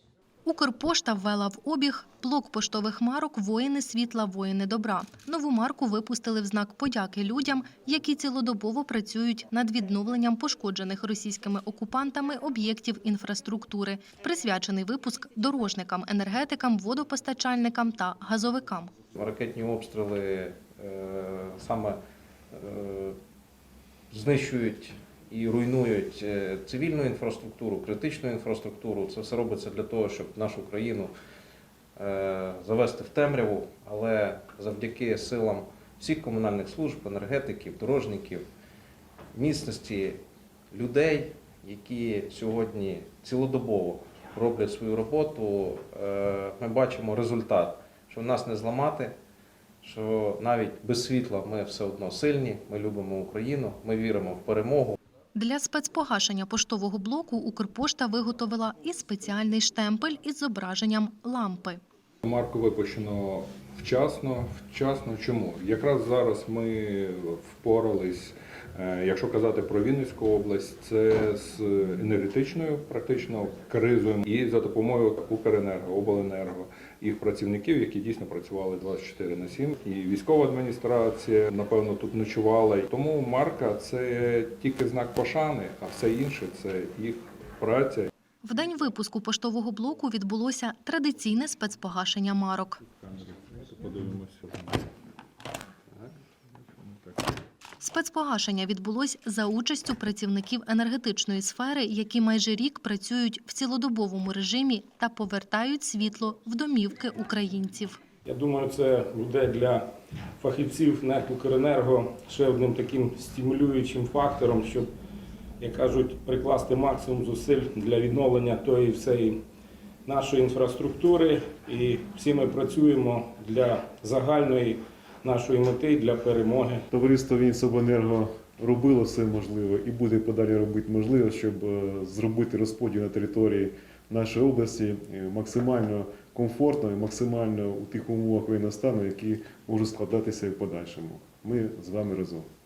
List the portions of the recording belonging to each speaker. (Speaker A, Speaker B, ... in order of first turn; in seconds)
Speaker A: 0.5-18.9, 55.4-61.8, 88.4-92.8, 97.8-108.0
Speaker B: 19.1-22.0, 22.5-23.2, 24.1-31.1, 32.0-38.5, 39.3-40.2, 40.7-49.1, 49.8-55.0
Speaker C: 62.2-88.1, 92.9-94.9, 96.6-97.3
Speaker D: 108.2-109.9, 110.4-114.9, 115.6-119.4, 120.1-126.8
Speaker E: 126.9-142.5